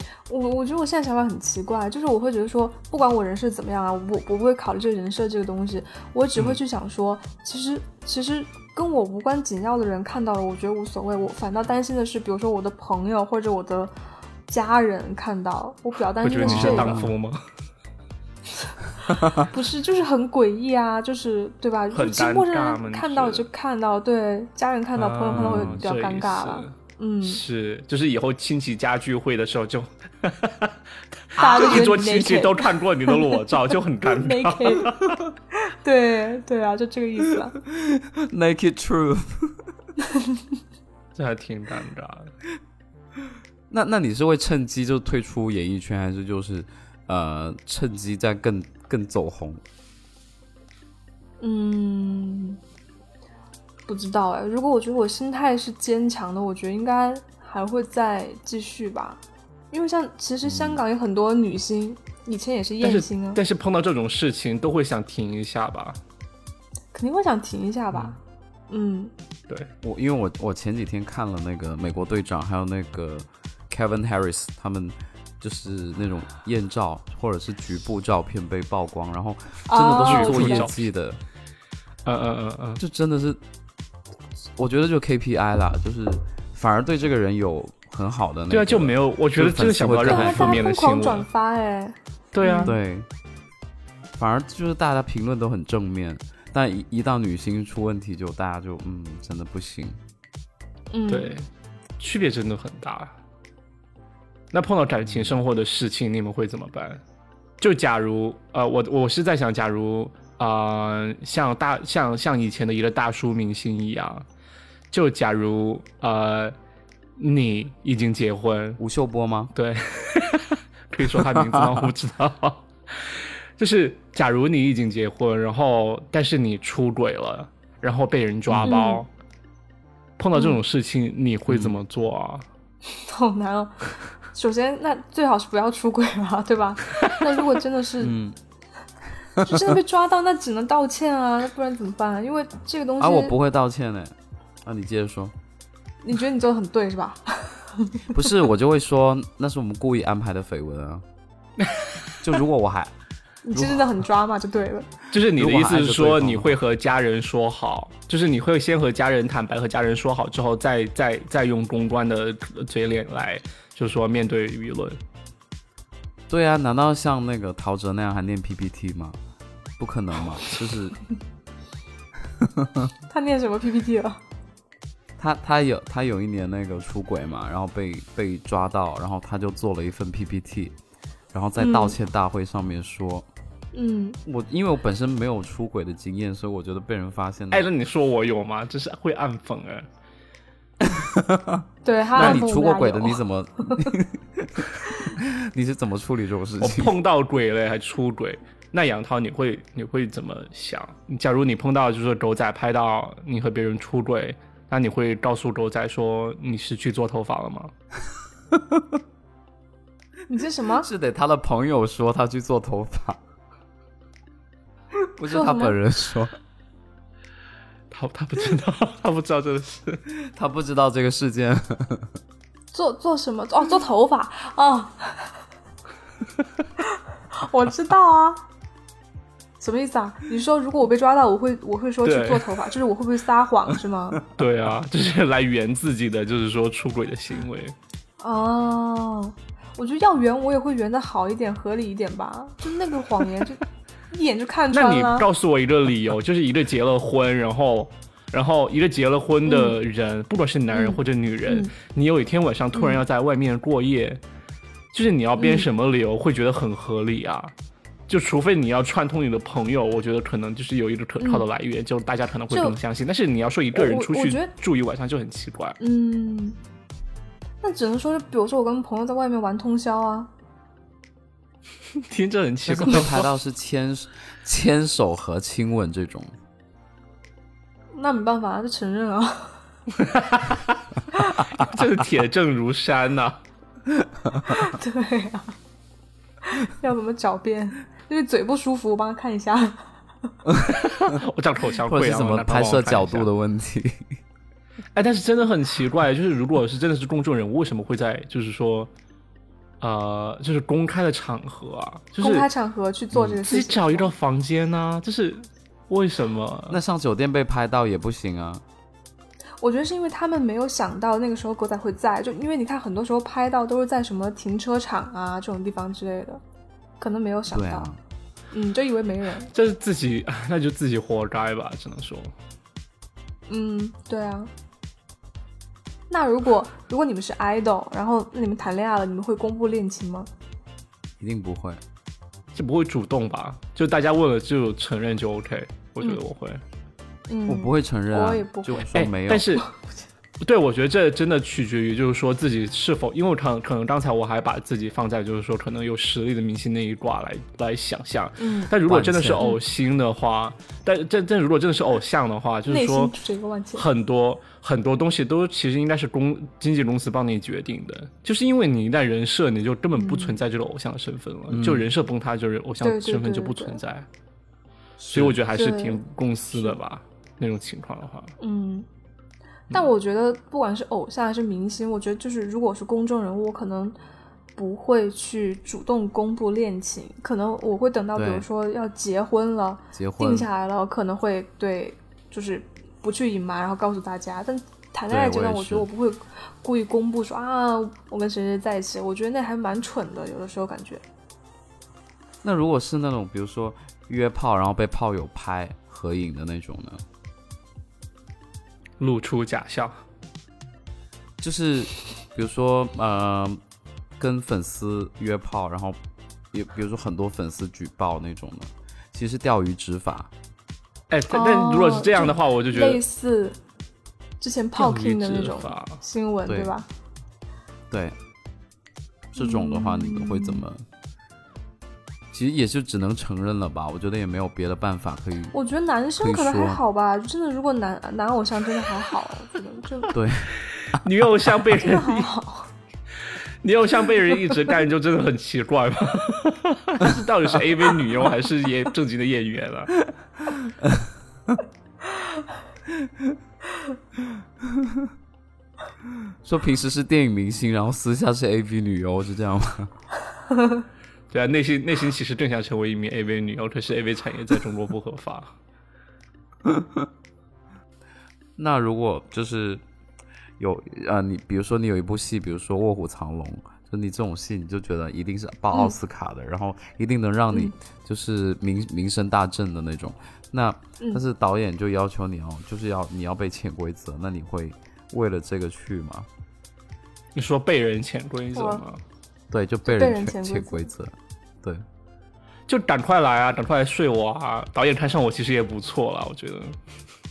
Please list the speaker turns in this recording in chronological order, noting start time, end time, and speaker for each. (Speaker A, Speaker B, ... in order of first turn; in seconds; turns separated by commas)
Speaker A: 0.3-13.9, Speaker A: 14.5-17.1, Speaker B: 16.2-17.4, Speaker C: 16.4-17.1, Speaker A: 18.6-27.4, Speaker B: 21.9-23.5, Speaker B: 25.0-26.7, Speaker C: 25.3-25.8, Speaker B: 27.2-30.7, Speaker B: 31.3-35.2, Speaker A: 31.4-33.4, Speaker C: 31.4-31.9, Speaker A: 34.0-34.9, Speaker A: 35.5-37.5, Speaker C: 37.6-39.7, Speaker B: 41.1-42.3, Speaker C: 43.7-49.6, Speaker A: 51.4-52.6, Speaker A: 53.9-59.2, Speaker A: 59.7-63.4, Speaker C: 60.5-60.8, Speaker B: 62.8-66.0, Speaker A: 66.9-68.2, Speaker A: 68.7-69.1, Speaker C: 69.8-81.2, Speaker A: 79.7-80.7, Speaker B: 80.0-80.8, Speaker B: 82.1-82.8, Speaker C: 82.8-83.4, Speaker C: 84.4-90.7, Speaker B: 88.5-91.3, Speaker A: 90.0-92.7, Speaker B: 92.3-92.8, Speaker C: 92.7-93.1, Speaker C: 94.2-100.0, Speaker A: 100.9-101.4, Speaker B: 101.1-101.5, Speaker B: 102.0-103.1, Speaker B: 104.5-107.0, Speaker C: 105.1-105.4, Speaker B: 107.6-114.2, Speaker B: 114.9-116.6, Speaker B: 117.2-118.8, Speaker C: 118.8-119.5, Speaker B: 119.5-129.1, Speaker C: 121.4-121.8, Speaker C: 128.5-128.9, Speaker A: 128.7-129.0, Speaker B: 130.2-132.5, Speaker C: 131.5-131.8, Speaker A: 132.9-138.2, Speaker C: 138.0-138.4, Speaker A: 139.4-143.4, Speaker C: 143.0-145.3, Speaker A: 146.0-148.1, Speaker C: 148.1-151.0, Speaker B: 151.6-152.1, Speaker C: 152.2-152.9, Speaker A: 153.4-154.9, Speaker C: 153.5-154.0, Speaker B: 155.1-165.0, Speaker C: 155.4-156.6, Speaker C: 166.3-169.2, Speaker C: 169.8-171.0, Speaker C: 172.4-172.9, Speaker A: 173.1-174.2, Speaker C: 175.2-180.7, Speaker C: 181.3-183.3, Speaker A: 181.6-181.9, Speaker A: 183.7-184.2, Speaker C: 184.3-187.7, Speaker B: 187.5-189.9, Speaker C: 190.8-191.6, Speaker A: 191.8-193.9, Speaker C: 192.2-196.9, Speaker B: 196.6-207.7, Speaker C: 208.5-208.8, Speaker A: 210.3-210.9, Speaker C: 210.8-213.2, Speaker C: 215.2-216.3, Speaker A: 215.3-215.8, Speaker B: 217.9-220.0, Speaker C: 220.3-222.2, Speaker A: 222.7-225.4, Speaker A: 226.9-228.4, Speaker A: 229.6-234.2, Speaker B: 232.1-232.7, Speaker B: 234.4-237.8, Speaker A: 238.2-245.3, Speaker B: 244.7-254.2, Speaker A: 249.4-249.8, Speaker A: 250.7-251.7, Speaker A: 252.7-253.0, Speaker B: 254.9-257.5, Speaker A: 255.4-255.7, Speaker B: 258.1-265.8, Speaker A: 261.2-261.5, Speaker A: 263.8-264.5, Speaker A: 265.8-266.6, Speaker A: 267.6-270.3, Speaker B: 272.0-273.3, Speaker C: 272.7-276.3, Speaker A: 277.9-279.6, Speaker B: 280.0-280.8, Speaker B: 281.5-283.4, Speaker A: 284.5-285.6, Speaker A: 286.5-289.9, Speaker B: 290.7-293.3, Speaker C: 291.8-294.1, Speaker B: 294.9-298.9, Speaker B: 299.8-302.5, Speaker A: 302.2-304.1, Speaker B: 303.4-306.8, Speaker C: 306.7-308.6, Speaker A: 309.6-316.4, Speaker A: 317.0-317.9, Speaker C: 317.5-318.0, Speaker A: 318.5-319.5, Speaker B: 319.5-322.3, Speaker A: 323.5-324.5, Speaker A: 326.1-330.3, Speaker C: 331.2-331.8, Speaker B: 332.6-336.6, Speaker A: 337.3-338.9, Speaker C: 337.5-339.5, Speaker B: 338.9-339.6, Speaker A: 339.6-339.9, Speaker B: 340.4-353.1, Speaker A: 348.4-348.7, Speaker C: 348.9-349.5, Speaker A: 352.7-353.9, Speaker B: 353.8-364.1, Speaker A: 360.0-360.4, Speaker C: 361.5-361.9, Speaker A: 362.8-363.8, Speaker C: 365.0-365.4, Speaker B: 365.1-368.3, Speaker A: 365.5-366.0, Speaker A: 366.5-366.8, Speaker A: 368.4-368.9, Speaker A: 369.7-374.0, Speaker A: 374.6-391.0, Speaker C: 378.1-378.5, Speaker C: 379.9-380.5, Speaker C: 385.1-385.9, Speaker C: 392.4-397.1, Speaker B: 399.0-400.0, Speaker C: 401.4-403.6, Speaker C: 404.2-406.0, Speaker C: 406.5-410.3, Speaker B: 411.1-413.0, Speaker A: 411.3-413.6, Speaker A: 414.4-416.9, Speaker B: 414.8-416.0, Speaker C: 416.5-416.7, Speaker C: 417.9-418.2, Speaker C: 419.3-420.9, Speaker A: 419.4-420.6, Speaker C: 422.3-425.6, Speaker A: 425.5-430.2, Speaker C: 426.2-426.8, Speaker C: 430.1-430.6, Speaker B: 430.7-432.3, Speaker A: 431.8-432.7, Speaker B: 433.2-439.9, Speaker C: 440.7-441.1, Speaker C: 444.6-445.1, Speaker C: 446.3-449.9, Speaker A: 450.5-450.8, Speaker B: 451.3-455.5, Speaker C: 456.6-457.1, Speaker C: 458.6-459.8, Speaker C: 460.6-476.3, Speaker B: 477.4-479.0, Speaker A: 478.6-478.8, Speaker C: 479.5-481.9, Speaker A: 479.9-480.9, Speaker B: 482.7-486.8